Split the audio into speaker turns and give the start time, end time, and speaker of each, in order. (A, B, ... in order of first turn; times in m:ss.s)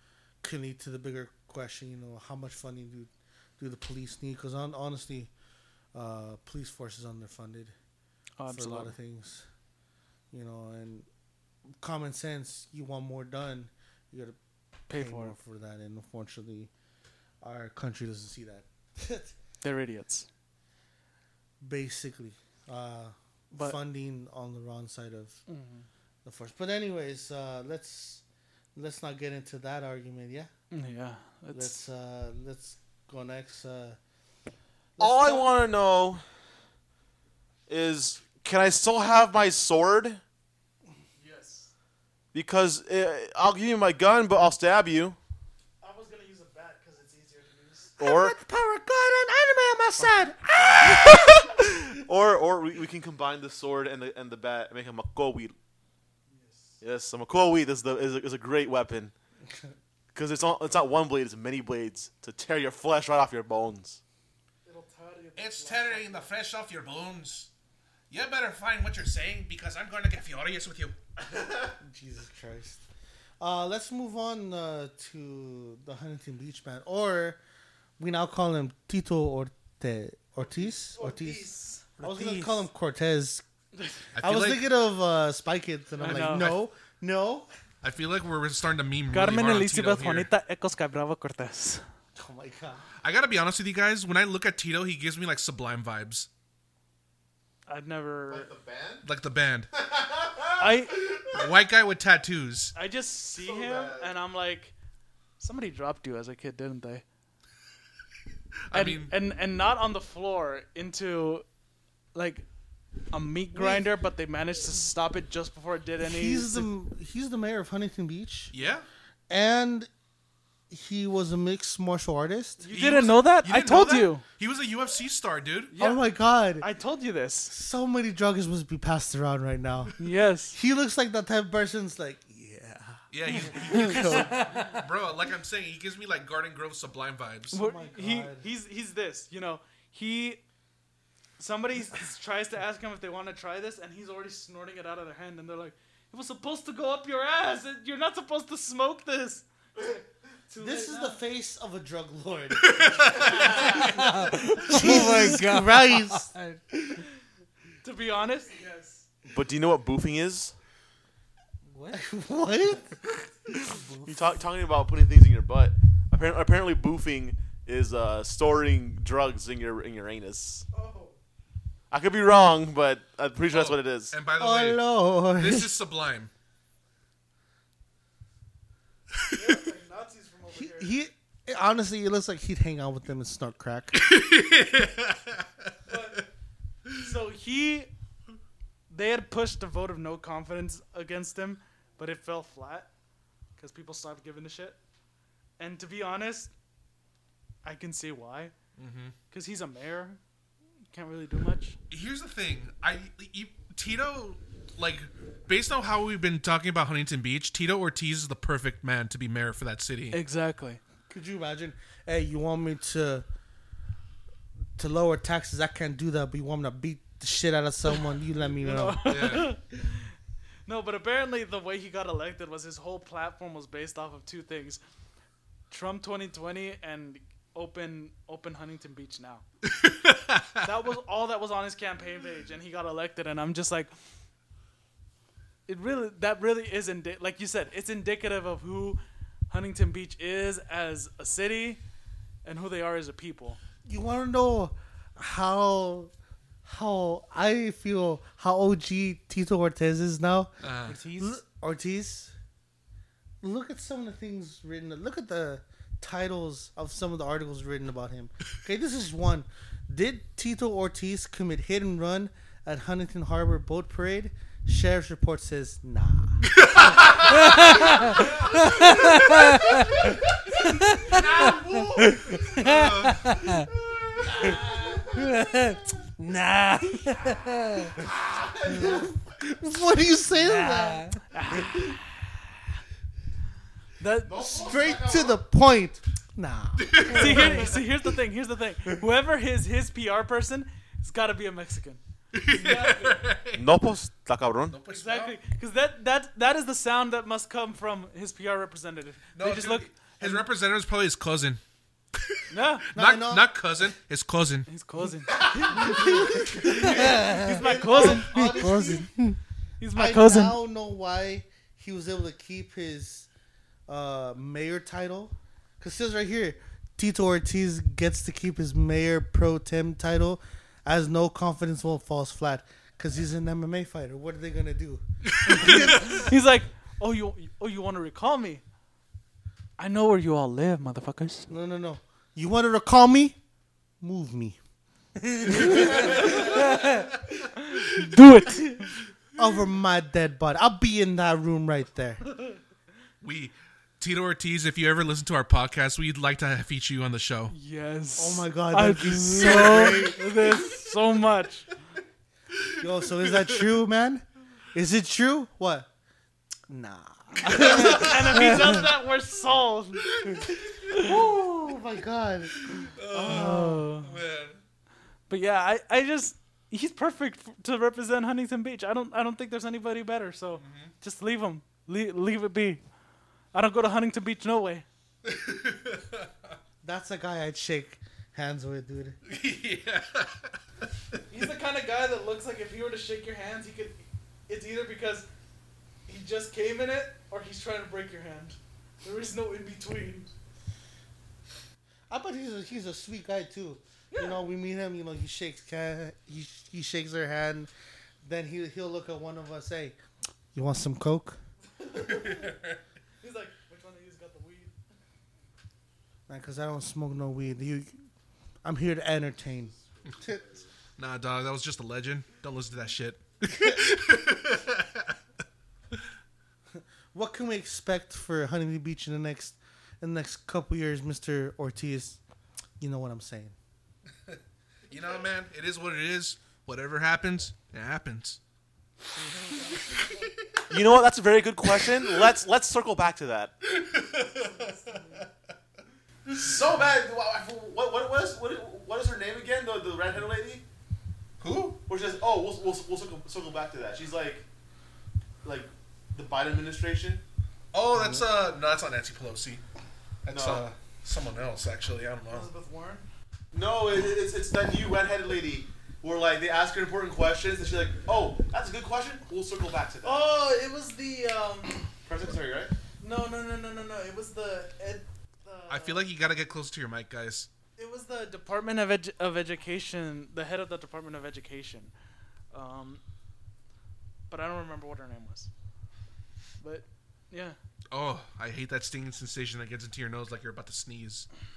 0:00.4-0:05.3 A
0:05.9-0:07.7 A
0:08.4-0:08.9 B
0:08.5-0:09.5 A
0:10.3-0:11.1 A
0:11.8-0:14.4 A
0:14.9-0:16.7 A
0:14.9-0:15.4 B
0:17.4-0:19.3 A
0:19.6-0:20.3 B
0:21.6-0:25.4 A
0:25.5-0:25.9 B
0:26.2-0:28.2 A
0:28.8-0:30.5 A
0:30.7-0:31.9 B
0:31.5-0:34.0 A
0:35.0-0:35.5 A
0:35.0-0:36.3 C
0:37.7-0:40.2 C
0:41.2-0:41.7 B
0:42.3-0:45.2 C
0:45.8-0:47.9 B
0:48.0-0:51.7 A
0:48.0-0:48.4 C
0:50.8-0:55.6 C
0:56.3-0:56.8 B
0:56.8-0:59.1 C
1:00.1-1:04.0 C
1:04.6-1:06.3 B
1:05.4-1:07.5 D
1:08.1-1:11.0 D
1:11.8-1:12.8 A
1:13.4-1:17.4 A
1:18.0-1:21.5 A
1:20.4-1:22.7 B
1:22.0-1:23.4 A
1:24.2-1:24.6 D
1:24.2-1:27.5 A
1:26.0-1:26.6 B
1:26.3-1:26.6 D
1:27.8-1:30.3 D
1:29.1-1:31.8 B
1:32.2-1:32.9 A
1:33.0-1:36.3 D
1:37.7-1:38.5 B
1:38.3-1:39.0 C
1:39.0-1:39.7 D
1:39.7-1:41.5 C
1:40.6-1:41.0 B
1:41.3-1:42.7 D
1:42.7-1:44.7 B
1:43.4-1:44.1 C
1:45.4-1:47.0 B
1:48.7-1:49.1 D
1:48.7-1:51.4 B
1:52.1-1:52.4 B
1:53.1-1:56.7 B
1:53.5-1:53.9 A
1:56.0-1:58.5 A
1:58.5-1:58.8 D
1:59.3-1:59.9 A
2:00.7-2:02.6 A
2:02.6-2:04.2 B
2:02.7-2:05.7 D
2:05.7-2:06.0 B
2:05.8-2:06.7 A
2:06.6-2:07.5 B
2:07.5-2:10.0 A
2:10.0-2:10.6 B
2:10.5-2:13.0 A
2:13.1-2:17.6 D
2:13.7-2:14.3 A
2:13.9-2:14.8 E
2:17.5-2:20.4 B
2:17.5-2:18.5 A
2:21.4-2:31.2 B
2:30.6-2:33.4 A
2:32.7-2:33.8 D
2:33.8-2:36.6 E
2:34.7-2:36.3 A
2:34.8-2:35.2 B
2:37.8-2:39.0 B
2:39.3-2:40.6 C
2:41.7-2:42.0 E
2:41.9-2:43.1 A
2:44.0-2:50.7 C
2:50.7-2:51.2 B
2:51.9-2:54.2 C
2:53.5-2:54.8 D
2:54.4-2:55.7 A
2:55.4-2:56.3 D
2:59.3-3:00.9 B
3:00.5-3:04.0 A
3:03.9-3:05.7 D
3:05.9-3:06.3 B
3:07.0-3:07.9 B
3:08.9-3:12.9 B
3:13.6-3:14.8 B
3:15.6-3:16.5 B
3:17.6-3:18.5 B
3:18.8-3:19.2 D
3:19.3-3:20.2 B
3:20.9-3:21.8 B
3:21.9-3:30.2 D
3:30.1-3:30.8 B
3:31.1-3:33.3 A
3:34.8-3:39.4 A
3:38.5-3:40.1 B
3:39.1-3:39.5 D
3:40.7-3:44.8 B
3:45.7-3:49.4 B
3:49.7-3:50.6 D
3:50.6-3:53.9 B
3:55.7-3:59.0 B
3:59.5-4:01.8 B
4:02.4-4:03.6 B
4:03.8-4:06.1 A
4:06.6-4:10.6 A
4:10.6-4:11.0 D
4:10.8-4:11.4 B
4:11.1-4:12.4 A
4:13.4-4:26.5 A
4:26.5-4:27.6 D
4:27.4-4:29.9 E
4:28.6-4:30.1 D
4:30.6-4:33.7 E
4:31.1-4:32.6 C
4:32.5-4:33.3 D
4:34.1-4:35.1 C
4:35.1-4:38.0 E
4:38.0-4:39.1 C
4:38.8-4:41.1 A
4:40.5-4:41.2 E
4:41.3-4:42.0 B
4:44.0-4:44.7 B
4:44.2-4:45.4 C
4:44.4-4:47.7 A
4:46.8-4:47.7 D
4:47.1-4:53.2 B
4:52.3-4:53.8 D
4:53.6-4:54.8 C
4:54.7-4:55.4 D
4:54.9-4:59.9 B
4:59.4-5:01.6 D
5:02.5-5:02.9 B
5:02.9-5:04.7 D
5:02.9-5:03.6 A
5:04.7-5:08.5 B
5:05.6-5:09.1 A
5:06.8-5:07.6 E
5:08.3-5:09.4 E
5:09.8-5:10.6 B
5:09.9-5:13.3 A
5:13.9-5:26.2 A
5:25.4-5:25.9 D
5:25.5-5:28.6 B
5:29.8-5:31.5 B
5:31.5-5:33.4 A
5:34.0-5:34.6 A
5:35.3-5:35.8 E
5:35.4-5:36.6 A
5:36.2-5:36.7 B
5:36.5-5:37.1 E
5:37.7-5:38.1 D
5:37.8-5:39.0 B
5:39.4-5:42.3 A
5:43.2-5:47.5 D
5:47.5-5:51.7 B
5:48.2-5:50.6 A
5:52.8-5:55.9 A
5:53.2-5:53.6 D
5:56.7-5:58.8 A
5:57.5-6:01.1 B
5:57.5-5:58.0 D
6:00.1-6:01.3 D
6:00.9-6:03.9 A
6:02.6-6:04.6 D
6:03.2-6:04.1 B
6:05.3-6:12.8 B
6:10.6-6:10.9 D
6:13.5-6:14.9 B
6:15.2-6:16.5 D
6:16.8-6:19.2 A
6:19.3-6:20.6 D
6:21.3-6:25.3 B
6:26.1-6:30.3 B
6:32.1-6:37.7 A
6:34.1-6:34.4 B
6:38.2-6:40.0 A
6:40.5-6:41.4 A
6:41.8-6:42.5 B
6:42.0-6:42.8 D
6:43.2-6:44.7 B
6:46.3-6:48.0 A
6:48.6-6:50.4 A
6:50.0-6:50.7 C
6:51.0-6:55.2 D
6:56.8-7:02.2 A
7:02.8-7:03.6 A
7:04.9-7:08.4 D
7:09.7-7:10.2 D
7:10.7-7:13.6 C
7:11.7-7:12.3 D
7:13.6-7:14.7 D
7:14.4-7:15.2 B
7:16.3-7:20.6 C
7:21.4-7:21.8 D
7:21.9-7:24.5 C
7:25.4-7:27.2 C
7:27.7-7:29.6 D
7:30.2-7:32.5 D
7:30.3-7:30.6 C
7:32.3-7:33.1 B
7:33.5-7:40.3 C
7:40.0-7:41.9 B
7:42.0-7:42.7 C
7:43.0-7:46.0 B
7:45.7-7:47.5 D
7:47.8-7:51.9 B
7:52.5-7:53.0 B
7:54.3-7:55.5 B
7:56.6-7:57.6 B
7:57.9-8:01.4 D